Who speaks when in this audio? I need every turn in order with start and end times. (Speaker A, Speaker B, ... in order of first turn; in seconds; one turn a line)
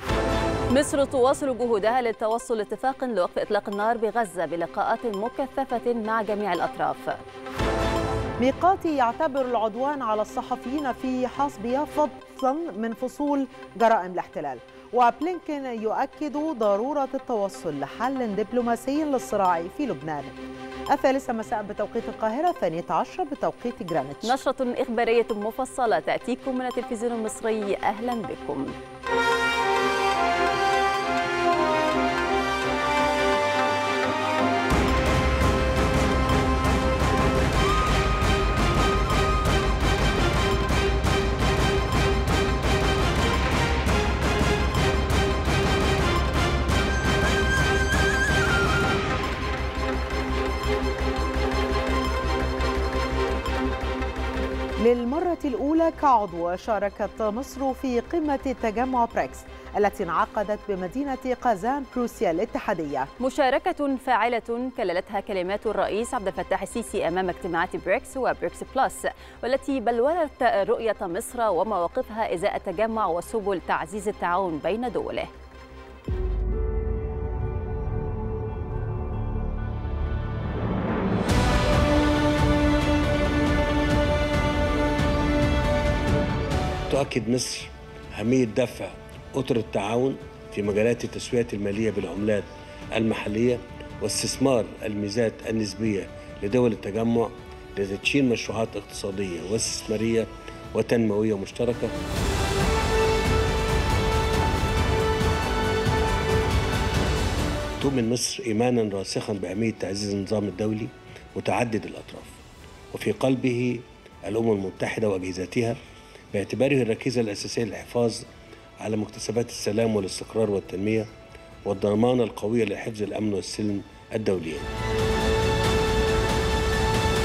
Speaker A: 0.7-7.2
Speaker B: 8.4-20.4
Speaker B: 20.9-24.4
Speaker A: 24.2-28.7
Speaker B: 54.8-63.1
Speaker A: 63.2-75.3
Speaker C: 86.9-101.9
Speaker C: 107.8-112.4
Speaker C: 112.9-115.8
Speaker C: 116.3-118.3
Speaker C: 118.8-121.1
Speaker C: 121.7-124.7